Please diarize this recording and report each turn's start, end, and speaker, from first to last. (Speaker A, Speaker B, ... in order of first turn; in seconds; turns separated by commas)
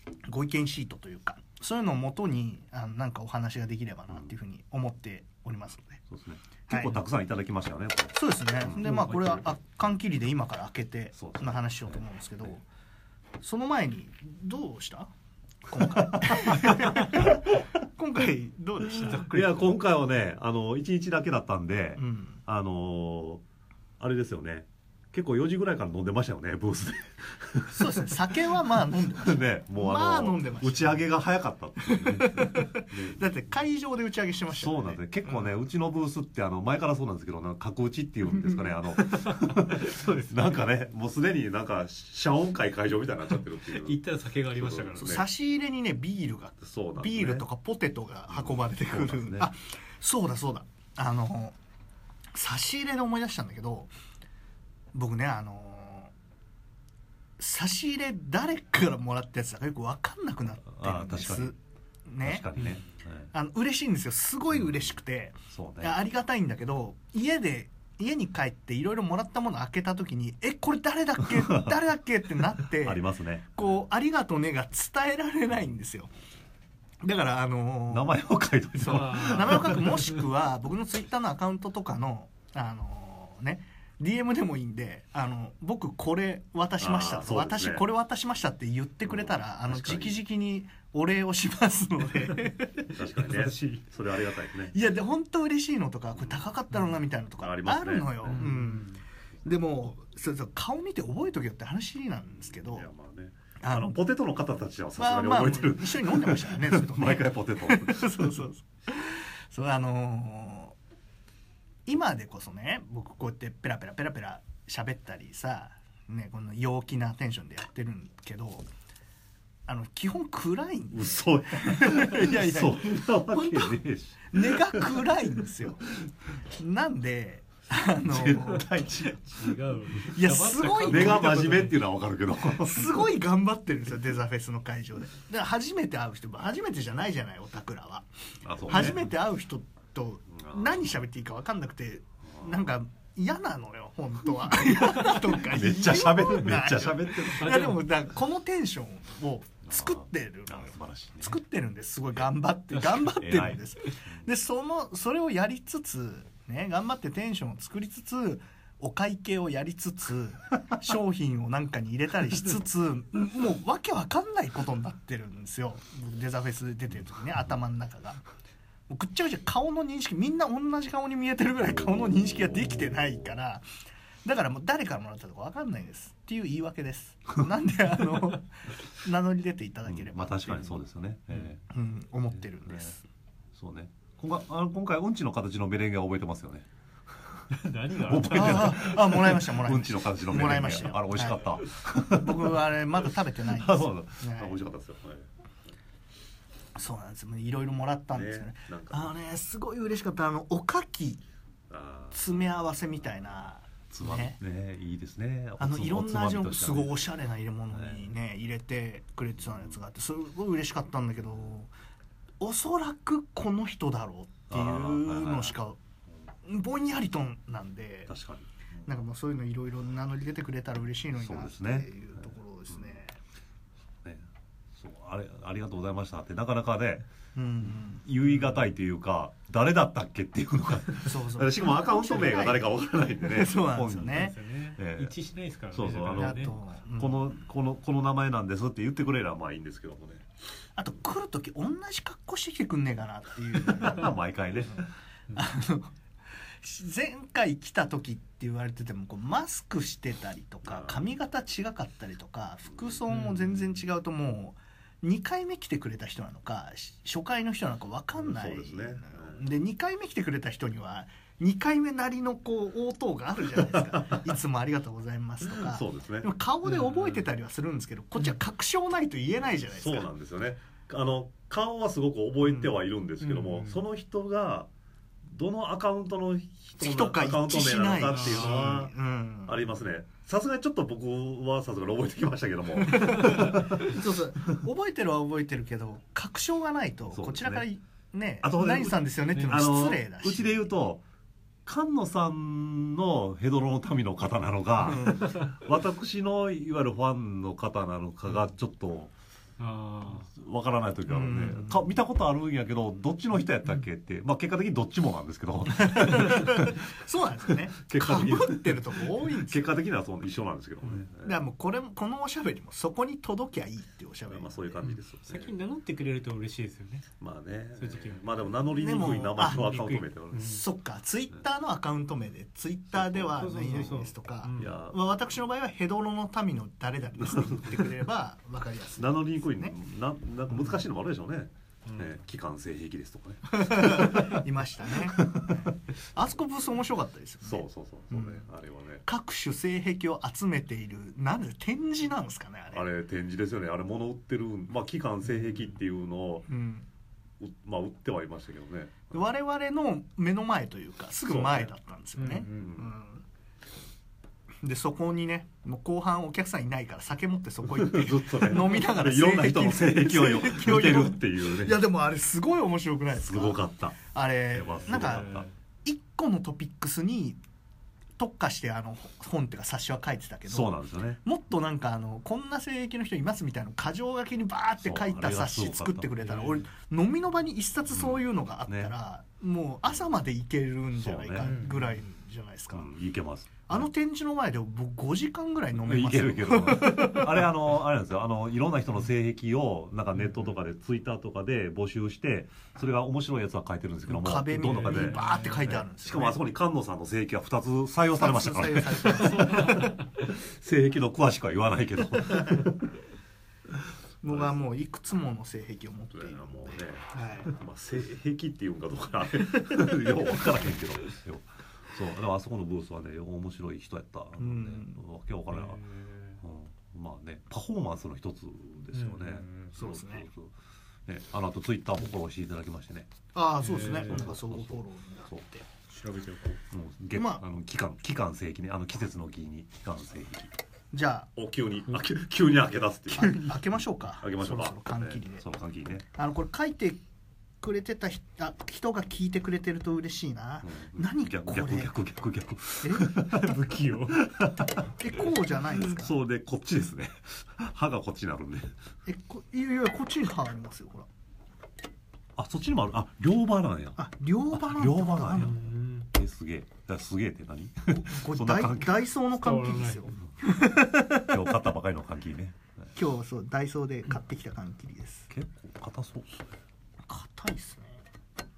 Speaker A: 0.3-6.0, Speaker B: 6.1-8.9, Speaker A: 6.7-7.0, Speaker A: 8.2-12.6, Speaker C: 8.8-9.4, Speaker B: 11.2-12.0, Speaker A: 13.4-15.1, Speaker A: 15.7-19.4, Speaker B: 15.8-17.3, Speaker C: 18.9-19.7, Speaker B: 19.3-23.4, Speaker A: 22.0-22.4, Speaker B: 24.0-28.4, Speaker A: 27.7-31.0, Speaker B: 28.9-33.3, Speaker A: 31.8-35.0, Speaker B: 34.5-44.0, Speaker C: 39.1-40.5, Speaker C: 43.7-45.2, Speaker B: 44.5-45.2, Speaker A: 45.0-51.5, Speaker B: 46.6-47.4, Speaker B: 48.3-49.5, Speaker A: 52.3-53.9, Speaker A: 54.9-56.1, Speaker A: 57.4-62.5, Speaker B: 60.7-61.5, Speaker B: 62.2-63.3, Speaker A: 63.3-73.0, Speaker B: 65.5-66.0, Speaker B: 71.4-71.7, Speaker B: 72.8-73.5, Speaker A: 73.5-76.1, Speaker A: 77.0-78.1, Speaker B: 77.9-80.0, Speaker A: 78.8-92.9, Speaker C: 78.8-79.8, Speaker B: 86.8-87.8, Speaker B: 89.1-90.2, Speaker B: 92.9-94.8, Speaker C: 93.2-93.8, Speaker A: 94.7-102.9, Speaker B: 96.2-96.5, Speaker B: 97.4-98.5, Speaker C: 98.2-99.0, Speaker B: 102.5-108.4, Speaker A: 103.6-104.0, Speaker A: 105.0-110.8, Speaker A: 111.9-118.7, Speaker A: 119.7-123.8, Speaker B: 120.9-125.1, Speaker A: 124.3-125.9, Speaker A: 126.5-129.1, Speaker B: 128.0-129.6, Speaker C: 129.3-131.8, Speaker A: 130.0-131.5, Speaker B: 130.8-133.1, Speaker A: 132.5-138.1, Speaker B: 138.4-139.1, Speaker A: 138.6-168.2, Speaker B: 140.4-140.8, Speaker B: 142.3-142.6, Speaker B: 145.3-147.6, Speaker C: 147.4-147.8, Speaker B: 149.7-151.4, Speaker B: 153.1-153.6, Speaker A: 168.9-173.6, Speaker B: 171.6-173.2, Speaker A: 174.2-180.8, Speaker B: 179.9-181.6, Speaker A: 181.7-183.1, Speaker B: 183.5-186.7, Speaker C: 187.5-188.9, Speaker B: 188.0-192.6, Speaker A: 188.3-194.5, Speaker B: 193.4-195.3, Speaker A: 196.8-201.2, Speaker B: 198.1-199.1, Speaker B: 201.7-202.4, Speaker A: 202.1-204.4, Speaker B: 203.9-207.0, Speaker A: 205.6-211.7, Speaker B: 207.7-208.1, Speaker A: 212.4-215.8, Speaker B: 214.5-215.6, Speaker A: 216.4-218.1, Speaker B: 218.1-218.5, Speaker A: 218.9-223.2, Speaker B: 221.2-221.9, Speaker B: 224.0-227.1, Speaker A: 227.3-228.1, Speaker B: 227.7-235.1, Speaker A: 231.1-234.3, Speaker C: 234.0-236.6, Speaker B: 235.7-240.2, Speaker A: 236.1-237.2, Speaker A: 240.8-244.1, Speaker B: 243.7-244.9, Speaker A: 245.3-245.9, Speaker A: 246.6-270.1, Speaker B: 250.7-251.1, Speaker C: 253.1-253.6, Speaker B: 258.2-259.4, Speaker B: 263.7-264.2, Speaker B: 265.4-266.3, Speaker C: 266.7-267.2, Speaker B: 269.7-274.7, Speaker A: 272.4-272.7, Speaker C: 273.2-273.8, Speaker B: 275.3-278.9, Speaker A: 276.8-279.6, Speaker C: 278.1-278.8, Speaker B: 279.5-284.0, Speaker A: 282.8-290.6, Speaker B: 287.1-287.6, Speaker B: 288.4-291.0, Speaker B: 291.6-299.1, Speaker A: 294.8-295.4, Speaker C: 299.6-300.3, Speaker B: 300.3-306.9, Speaker A: 301.1-301.9, Speaker A: 305.8-309.7, Speaker B: 307.5-311.4, Speaker A: 311.2-314.8, Speaker B: 314.3-315.5, Speaker C: 314.8-317.1, Speaker B: 317.2-320.5, Speaker C: 317.8-320.6, Speaker A: 318.8-319.7, Speaker A: 320.4-329.8, Speaker B: 322.9-323.5, Speaker C: 323.4-324.8, Speaker B: 324.6-325.1, Speaker B: 327.2-327.9, Speaker B: 329.0-335.6, Speaker C: 331.9-332.1, Speaker A: 333.5-338.4, Speaker B: 337.4-339.0, Speaker A: 339.0-342.9, Speaker B: 342.7-346.5, Speaker A: 346.5-346.9, Speaker B: 347.4-349.1, Speaker A: 349.1-353.2, Speaker B: 351.2-351.7, Speaker C: 352.2-352.8, Speaker B: 352.5-352.9, Speaker A: 354.6-367.4, Speaker B: 357.7-361.8, Speaker B: 363.1-364.0, Speaker B: 364.5-365.5, Speaker C: 364.9-365.5, Speaker A: 368.2-382.9, Speaker B: 370.5-371.2, Speaker B: 374.8-376.3, Speaker C: 376.2-376.6, Speaker B: 377.9-378.9, Speaker B: 380.9-381.6, Speaker C: 381.4-381.9, Speaker B: 382.7-383.9, Speaker A: 383.7-387.4, Speaker B: 385.8-402.9, Speaker A: 394.1-396.4, Speaker C: 394.7-395.7, Speaker A: 398.2-399.8, Speaker C: 399.3-400.0, Speaker A: 404.2-407.5, Speaker B: 404.3-404.6, Speaker B: 406.1-415.8, Speaker A: 414.4-415.0, Speaker C: 415.5-416.4, Speaker B: 416.4-420.5, Speaker C: 418.9-419.7, Speaker A: 419.8-420.2, Speaker B: 421.1-423.1, Speaker A: 423.3-425.6, Speaker C: 423.6-424.3, Speaker B: 424.0-425.4, Speaker C: 425.9-426.6, Speaker B: 426.7-430.5, Speaker A: 427.1-427.4, Speaker A: 430.9-431.3, Speaker B: 431.4-436.0, Speaker A: 433.1-435.4, Speaker A: 436.1-437.0, Speaker A: 437.6-441.9, Speaker B: 440.6-443.6, Speaker A: 442.8-443.2, Speaker C: 443.2-444.4, Speaker B: 444.1-448.7, Speaker A: 445.0-446.1, Speaker A: 449.1-451.1, Speaker B: 452.4-454.0, Speaker A: 454.0-455.5, Speaker B: 454.5-458.9, Speaker C: 455.3-456.1, Speaker A: 457.9-461.3, Speaker C: 459.4-460.1, Speaker B: 461.3-462.6, Speaker A: 463.0-465.3, Speaker B: 465.3-466.4, Speaker A: 467.1-468.0